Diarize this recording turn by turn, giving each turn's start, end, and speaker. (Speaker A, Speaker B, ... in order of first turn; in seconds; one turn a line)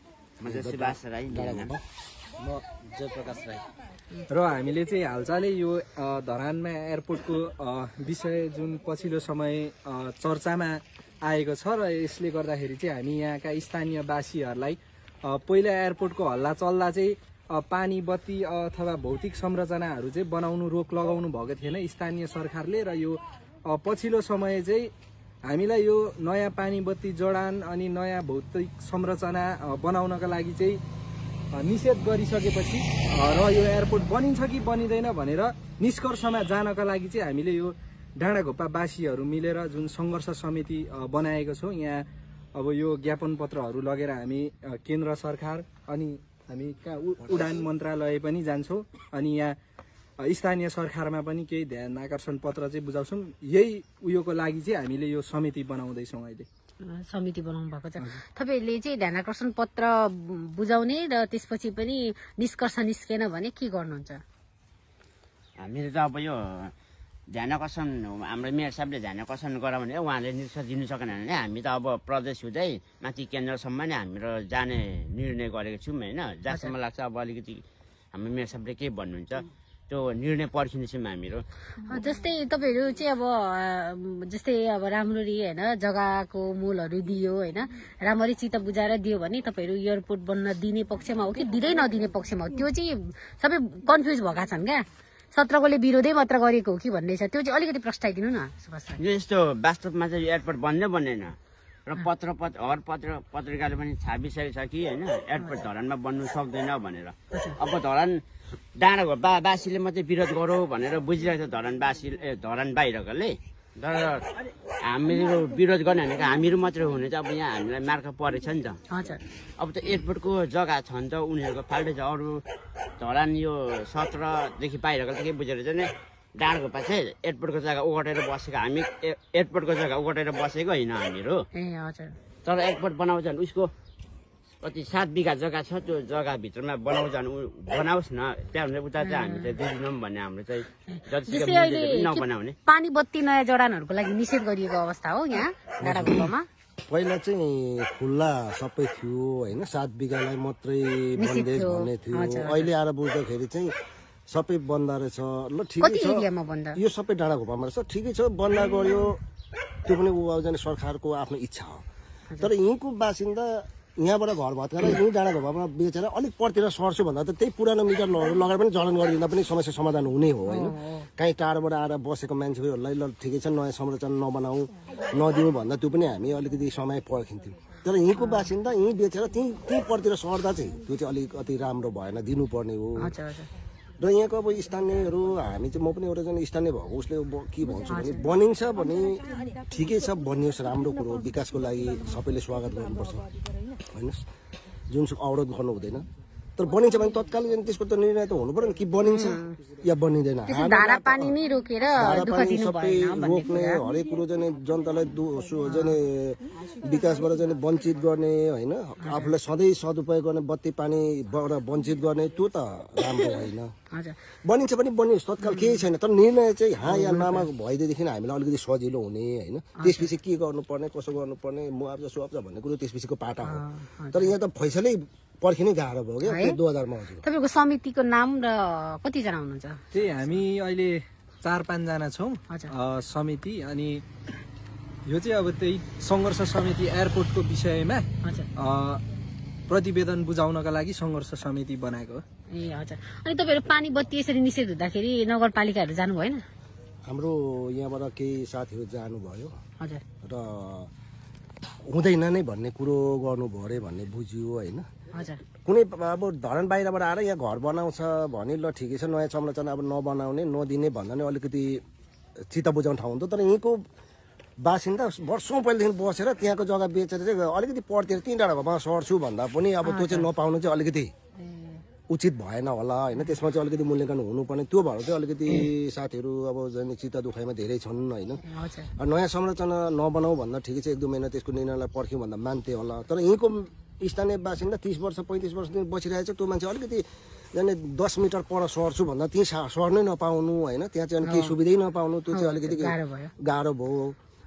Speaker A: 0.4-1.8
Speaker B: 0.4-1.7
Speaker B: 2.9-3.6
Speaker C: 4.3-24.9
Speaker C: 25.5-30.8
Speaker C: 31.5-49.5
Speaker C: 50.2-56.5
Speaker D: 56.8-64.2
Speaker B: 65.6-66.7
Speaker B: 67.3-77.6
Speaker D: 76.5-76.7
Speaker B: 78.1-81.4
Speaker D: 81.8-99.0
Speaker B: 99.0-101.3
Speaker B: 101.9-108.2
Speaker D: 105.4-105.6
Speaker D: 107.3-107.6
Speaker B: 108.8-114.2
Speaker B: 114.9-118.8
Speaker D: 118.9-119.2
Speaker B: 119.6-122.4
Speaker B: 123.0-131.4
Speaker D: 131.5-132.2
Speaker B: 132.4-133.7
Speaker B: 134.6-142.5
Speaker D: 139.0-139.6
Speaker D: 140.9-146.5
Speaker A: 145.8-146.3
Speaker A: 146.9-153.7
Speaker D: 151.2-152.7
Speaker A: 154.3-159.2
Speaker D: 155.8-156.8
Speaker A: 159.8-161.8
Speaker A: 162.4-183.1
Speaker D: 170.4-171.1
Speaker D: 178.2-178.5
Speaker D: 183.0-183.5
Speaker A: 184.0-189.2
Speaker D: 187.9-188.2
Speaker A: 189.7-193.2
Speaker A: 193.9-194.2
Speaker A: 194.9-196.1
Speaker A: 196.6-201.3
Speaker D: 199.0-199.5
Speaker D: 200.4-203.8
Speaker A: 202.0-213.7
Speaker D: 205.7-205.9
Speaker D: 209.0-209.3
Speaker A: 214.4-227.2
Speaker D: 215.4-215.8
Speaker D: 216.9-217.4
Speaker D: 219.8-220.1
Speaker D: 223.4-224.3
Speaker D: 226.2-226.6
Speaker D: 227.2-229.8
Speaker C: 229.9-234.0
Speaker C: 235.1-239.0
Speaker D: 238.2-238.5
Speaker C: 239.7-242.2
Speaker D: 242.5-246.4
Speaker A: 247.1-249.5
Speaker A: 250.2-250.9
Speaker A: 251.9-254.8
Speaker D: 255.1-255.4
Speaker A: 255.6-261.8
Speaker A: 262.5-263.8
Speaker A: 264.6-271.1
Speaker D: 269.8-270.2
Speaker D: 271.4-271.8
Speaker A: 272.1-278.4
Speaker D: 278.4-278.9
Speaker A: 279.0-287.0
Speaker A: 287.5-294.1
Speaker D: 291.2-291.5
Speaker D: 292.3-293.3